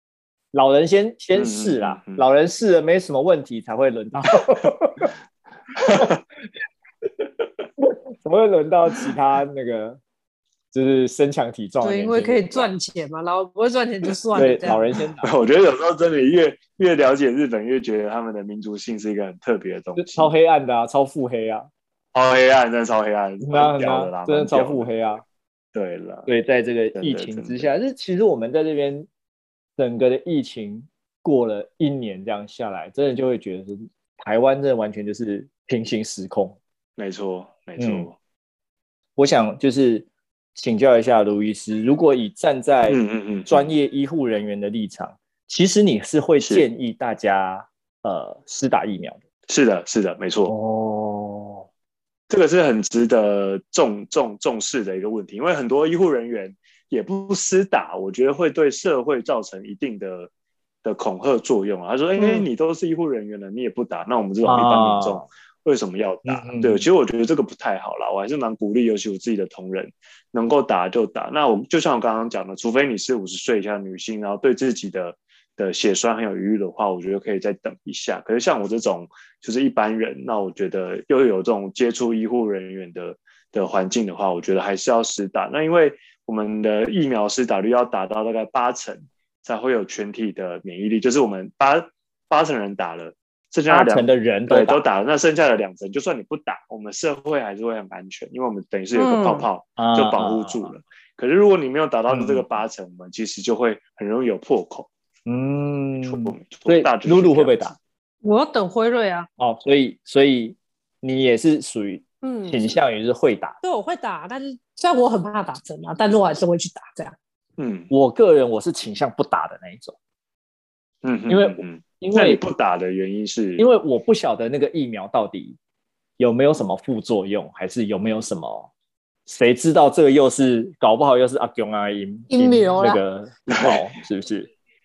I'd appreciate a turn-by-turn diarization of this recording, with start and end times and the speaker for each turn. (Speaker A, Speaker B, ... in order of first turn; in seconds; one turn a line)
Speaker A: 0.5-5.1
Speaker B: 1.3-2.2
Speaker B: 5.8-6.2
Speaker A: 7.8-10.0
Speaker A: 10.7-12.7
Speaker C: 11.8-14.8
Speaker B: 14.3-14.6
Speaker A: 14.3-15.3
Speaker B: 15.2-20.3
Speaker A: 19.9-21.7
Speaker B: 22.1-25.0
Speaker A: 23.4-25.2
Speaker B: 25.7-26.3
Speaker A: 26.3-29.1
Speaker B: 26.9-27.7
Speaker A: 29.8-36.6
Speaker B: 37.0-38.1
Speaker A: 37.8-38.1
Speaker A: 39.2-49.2
Speaker B: 42.9-43.7
Speaker B: 49.5-50.5
Speaker A: 50.5-51.7
Speaker B: 52.3-60.3
Speaker B: 60.8-104.9
Speaker C: 62.2-62.5
Speaker A: 64.4-65.3
Speaker A: 66.2-66.9
Speaker A: 93.7-94.8
Speaker C: 98.9-99.5
Speaker A: 99.8-100.7
Speaker A: 102.1-102.5
Speaker A: 105.2-107.7
Speaker B: 106.0-107.8
Speaker C: 108.2-109.3
Speaker A: 109.4-113.6
Speaker C: 112.2-112.8
Speaker C: 113.6-117.1
Speaker B: 117.6-117.9
Speaker A: 117.9-120.0
Speaker B: 121.0-123.7
Speaker A: 121.3-122.5
Speaker A: 123.6-125.6
Speaker A: 126.2-128.7
Speaker A: 129.3-134.5
Speaker C: 132.3-133.0
Speaker B: 133.5-133.8